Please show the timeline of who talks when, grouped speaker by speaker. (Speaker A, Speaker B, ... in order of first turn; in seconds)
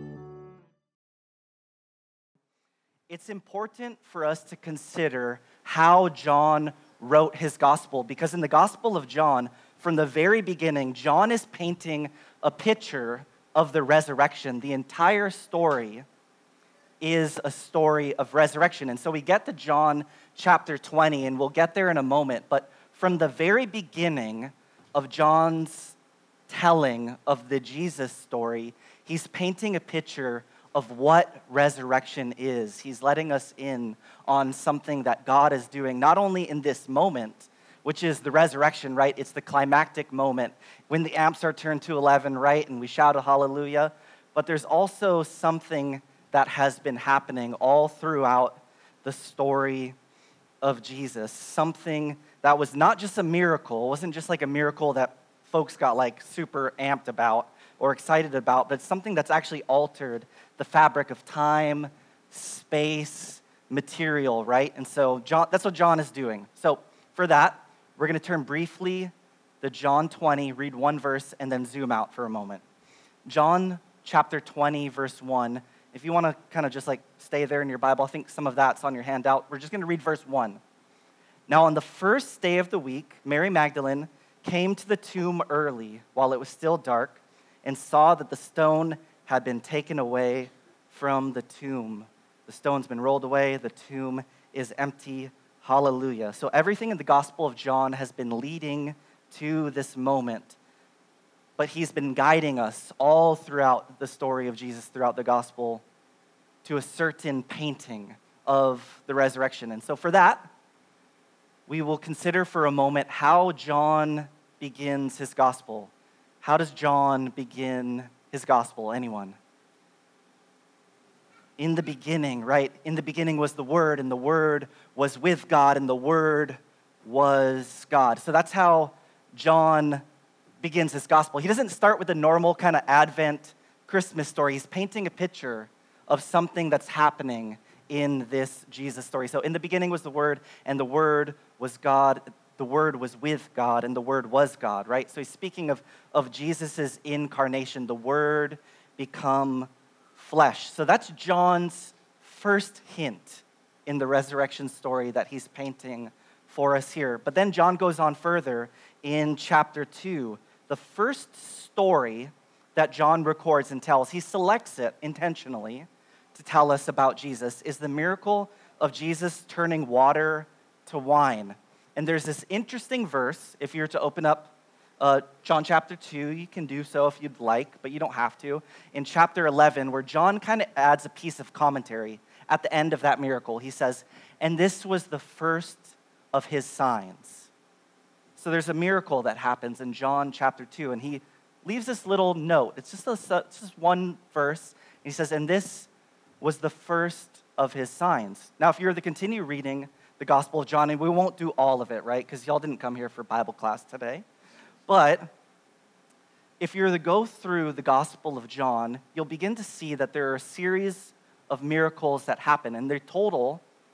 Speaker A: 3.1-16.0, 17.0-25.9, 26.5-49.9, 50.6-72.6, 73.3-80.6, 81.5-100.6, 101.6-105.8, 106.6-110.5, 111.7-115.9, 116.4-119.4, 121.6-130.0, 130.6-187.5, 188.3-195.9, 196.4-204.2, 204.9-205.3, 206.6-213.6